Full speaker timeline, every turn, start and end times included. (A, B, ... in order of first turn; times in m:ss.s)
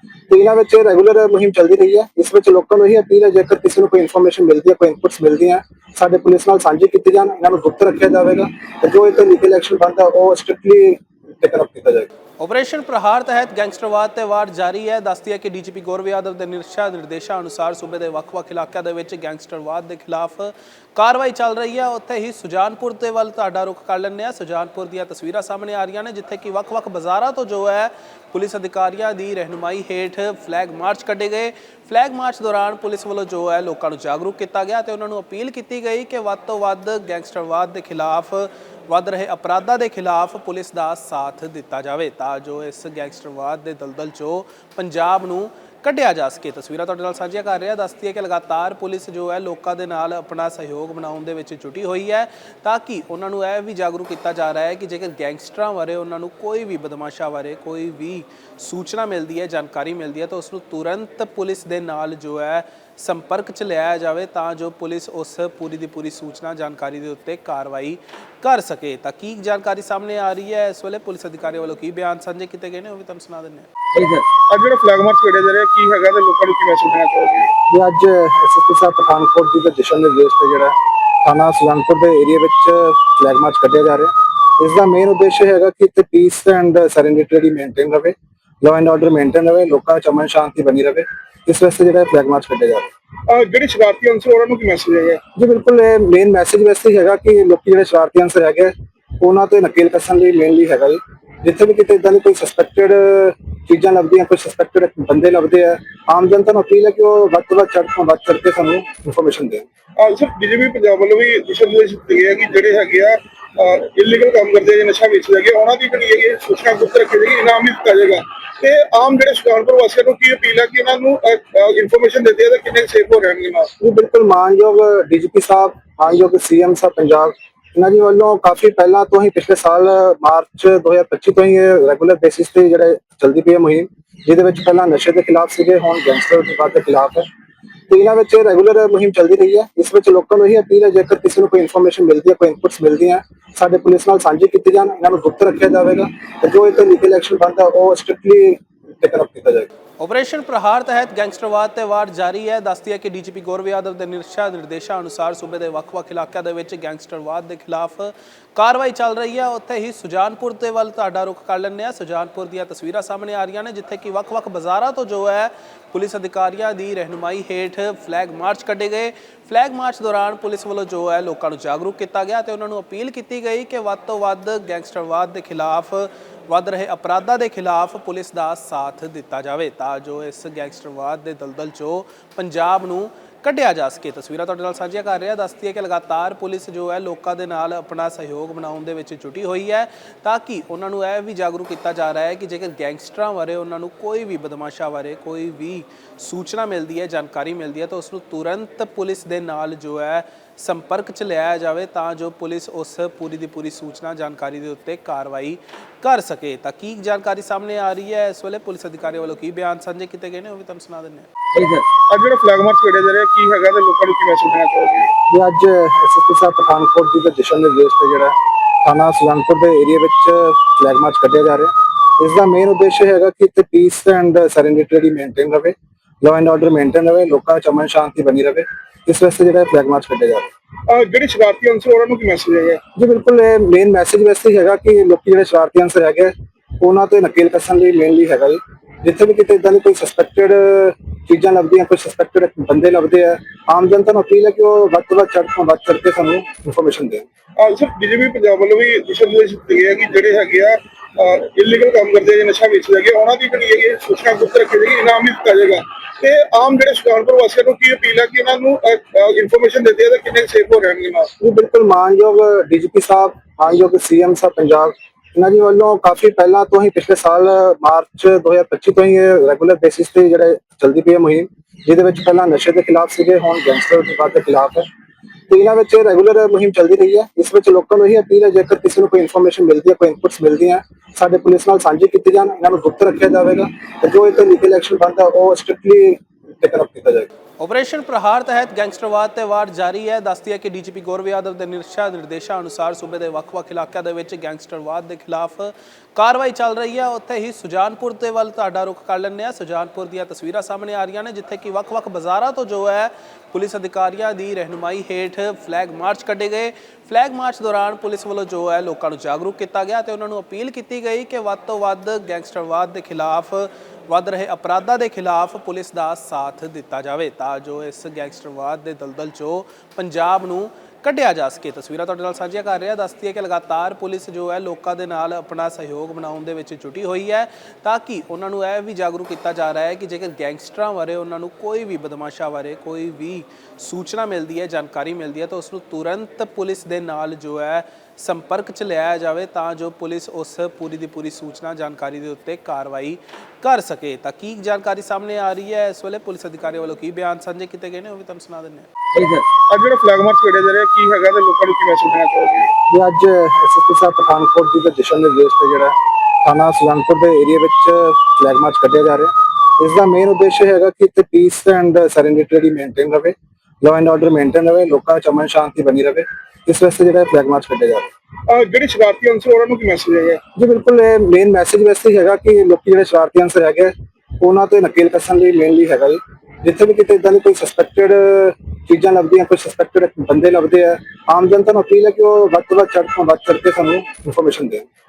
0:00.3-0:12.1 A
0:12.4-1:14.2 B
1:14.5-1:17.5 C
1:17.7-1:32.9 A
1:33.3-1:35.2 C
1:35.3-1:49.6 A
1:50.0-2:03.7 C
2:03.8-2:17.3 A
2:17.9-2:29.7 A
2:30.0-3:31.8 B
3:32.1-3:35.1 C
3:35.3-3:50.5 A
3:50.9-3:52.8 C
3:52.9-4:07.2 A
4:07.6-4:21.3 C
4:21.4-4:34.9 A
4:35.5-4:47.3 A
4:47.6-5:49.4 B
5:49.7-5:52.7 C
5:52.9-6:08.1 A
6:08.5-6:10.4 C
6:10.5-6:24.8 A